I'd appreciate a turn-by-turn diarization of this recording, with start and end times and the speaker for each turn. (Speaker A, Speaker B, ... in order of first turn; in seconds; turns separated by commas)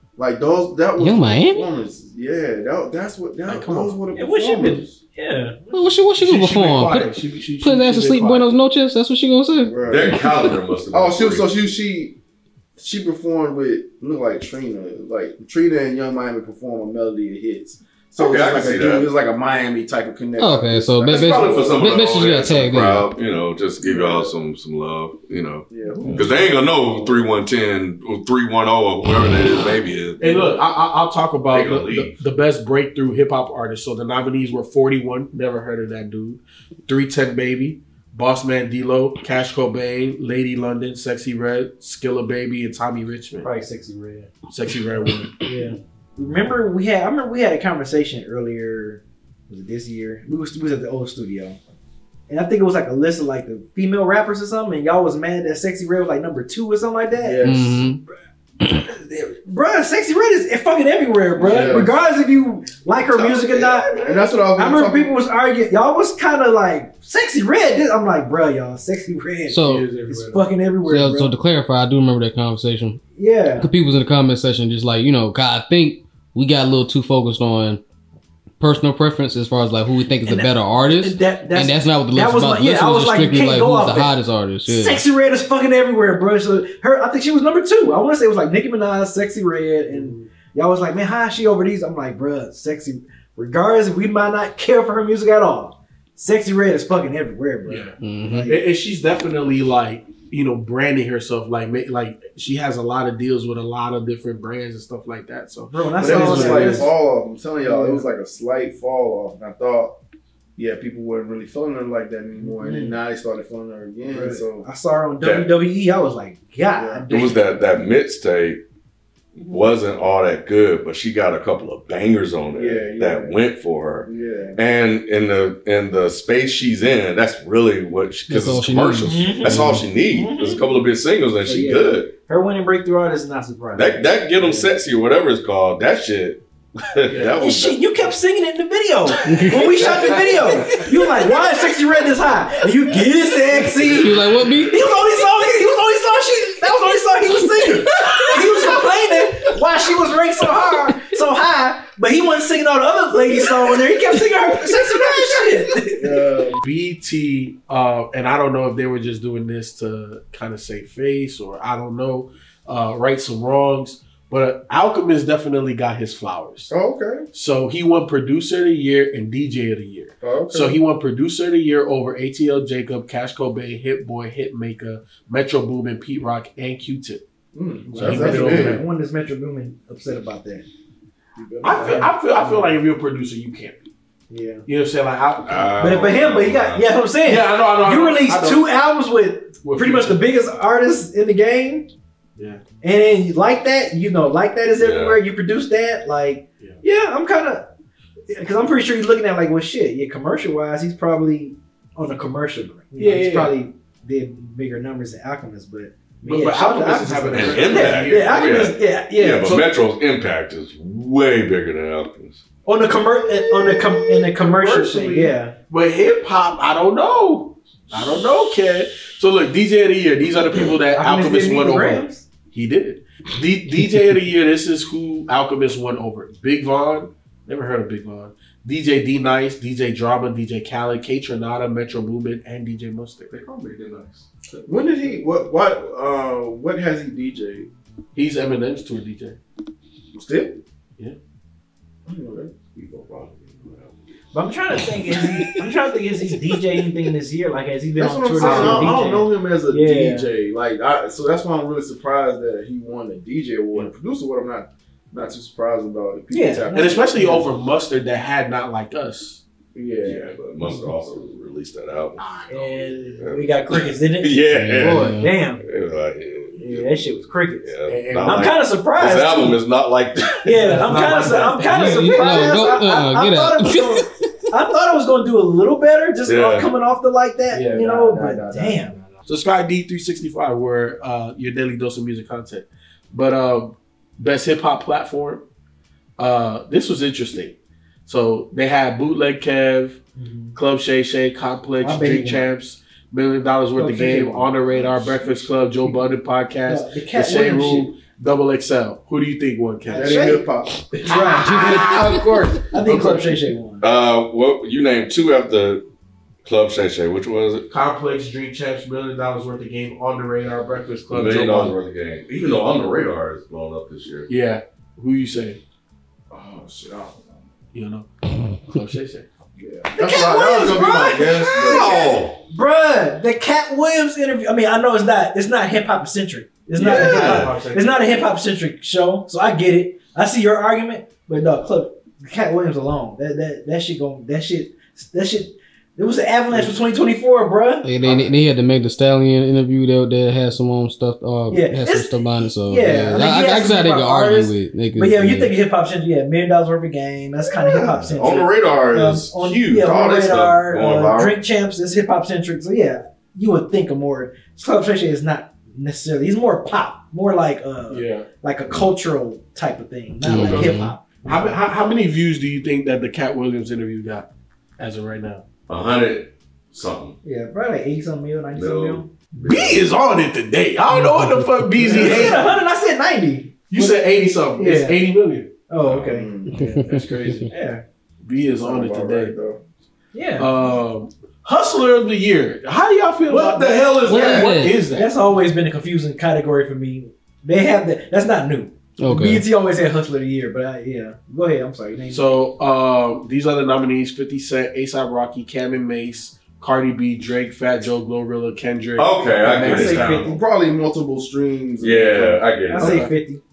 Speaker A: 0.2-5.0, Speaker B: 1.0-1.7, Speaker C: 3.5-4.0, Speaker D: 4.1-6.0, Speaker B: 5.7-10.5, Speaker C: 6.2-8.6, Speaker A: 9.6-10.3, Speaker E: 9.8-11.5, Speaker A: 10.9-12.2, Speaker A: 12.8-21.9, Speaker E: 18.2-19.1, Speaker B: 20.4-23.1, Speaker E: 21.1-30.6, Speaker A: 23.8-24.3, Speaker A: 25.7-27.3, Speaker C: 30.2-43.5, Speaker E: 31.5-32.1, Speaker D: 43.4-44.3, Speaker C: 44.5-45.3, Speaker D: 45.4-51.6, Speaker D: 52.3-57.5, Speaker A: 57.1-57.9, Speaker B: 57.4-58.0, Speaker D: 58.7-63.9, Speaker C: 61.4-61.9, Speaker A: 61.4-61.9, Speaker C: 63.2-64.2, Speaker A: 64.0-65.1, Speaker D: 64.5-71.3, Speaker B: 69.5-69.9, Speaker C: 69.6-70.4, Speaker B: 70.8-73.0, Speaker D: 73.2-73.7, Speaker B: 73.6-77.8, Speaker B: 78.6-85.0, Speaker D: 80.2-98.6, Speaker C: 89.9-90.3, Speaker C: 97.6-106.9, Speaker B: 98.0-98.5, Speaker D: 105.7-106.9, Speaker A: 106.0-110.0, Speaker D: 107.6-108.0, Speaker A: 110.5-114.7, Speaker D: 112.4-113.0, Speaker D: 114.0-117.4, Speaker E: 115.2-115.5, Speaker A: 116.7-117.1, Speaker E: 117.1-118.6, Speaker E: 119.3-132.1, Speaker A: 122.5-123.4, Speaker A: 124.0-124.6, Speaker B: 128.3-129.8, Speaker D: 129.0-130.7, Speaker D: 131.4-134.7, Speaker E: 133.7-137.8, Speaker C: 137.1-137.4, Speaker D: 137.3-156.2, Speaker B: 139.2-139.8, Speaker C: 139.3-140.8, Speaker B: 143.9-144.8, Speaker A: 156.0-156.6, Speaker C: 156.6-166.7, Speaker A: 166.7-167.2, Speaker C: 167.3-177.2, Speaker A: 170.2-170.8, Speaker A: 177.5-178.8, Speaker C: 177.9-178.8, Speaker D: 178.0-180.7, Speaker A: 181.4-182.1, Speaker D: 181.6-182.7, Speaker C: 181.6-183.8, Speaker D: 184.3-184.6, Speaker C: 184.7-185.7, Speaker E: 185.4-186.8, Speaker D: 185.8-191.9, Speaker C: 187.2-188.7, Speaker C: 189.6-190.2, Speaker C: 192.4-192.6, Speaker D: 192.8-197.7, Speaker E: 194.8-195.2, Speaker D: 198.3-209.6, Speaker C: 203.0-203.6, Speaker C: 206.2-208.7, Speaker E: 207.3-212.4, Speaker C: 209.4-209.7, Speaker D: 212.6-215.6, Speaker C: 213.0-233.3, Speaker D: 220.9-222.2, Speaker E: 233.3-235.2, Speaker A: 234.7-237.7, Speaker C: 238.1-239.4, Speaker A: 240.1-240.6, Speaker A: 242.1-242.7, Speaker E: 242.7-244.0, Speaker D: 244.3-250.3, Speaker A: 248.0-257.1, Speaker C: 248.4-249.0, Speaker D: 256.3-257.5, Speaker C: 256.7-259.4, Speaker A: 259.7-260.3, Speaker E: 260.0-262.2, Speaker C: 262.2-263.2, Speaker D: 262.5-265.6, Speaker E: 263.2-271.2, Speaker B: 264.5-265.3, Speaker D: 266.6-269.6, Speaker C: 267.9-268.5, Speaker D: 270.4-278.9, Speaker C: 270.6-272.5, Speaker B: 271.7-274.3, Speaker E: 276.2-276.7, Speaker C: 277.5-277.9, Speaker A: 277.7-279.1, Speaker C: 279.2-285.4, Speaker C: 286.2-290.0, Speaker D: 290.1-290.6, Speaker C: 290.5-303.4, Speaker D: 291.8-292.4, Speaker D: 293.8-294.5, Speaker D: 296.6-297.9, Speaker D: 299.9-300.4, Speaker A: 299.9-300.8, Speaker D: 301.0-301.9, Speaker B: 301.4-302.5, Speaker A: 301.7-302.2, Speaker D: 302.7-303.8, Speaker E: 303.8-305.9, Speaker E: 306.4-307.7, Speaker C: 307.7-311.7, Speaker E: 311.1-314.3, Speaker C: 314.3-315.6, Speaker A: 316.3-317.4, Speaker C: 317.7-318.1, Speaker C: 318.6-319.2, Speaker A: 319.6-322.1, Speaker D: 319.9-337.9, Speaker E: 321.5-322.4, Speaker C: 326.8-327.8, Speaker E: 326.8-328.1, Speaker B: 337.8-345.5, Speaker D: 341.5-361.5, Speaker E: 347.5-351.4, Speaker C: 357.9-358.3, Speaker B: 360.2-360.9, Speaker E: 360.4-360.8, Speaker C: 361.2-365.4, Speaker E: 365.7-367.2, Speaker D: 367.2-369.1, Speaker E: 368.5-369.8, Speaker C: 369.4-372.5, Speaker B: 370.9-371.7, Speaker D: 371.8-375.0, Speaker C: 373.7-375.5, Speaker D: 375.7-377.8, Speaker A: 376.0-376.5, Speaker B: 376.5-377.5, Speaker C: 376.8-377.5, Speaker C: 378.2-379.3, Speaker A: 378.6-379.6, Speaker D: 380.1-380.5, Speaker C: 380.4-385.1, Speaker E: 383.3-384.5, Speaker B: 384.1-384.8, Speaker D: 384.1-392.3, Speaker B: 389.0-389.4, Speaker C: 392.1-400.0, Speaker E: 398.9-400.3, Speaker D: 399.4-400.4, Speaker A: 399.6-402.4, Speaker E: 401.8-403.1, Speaker D: 402.7-403.4, Speaker C: 402.8-403.1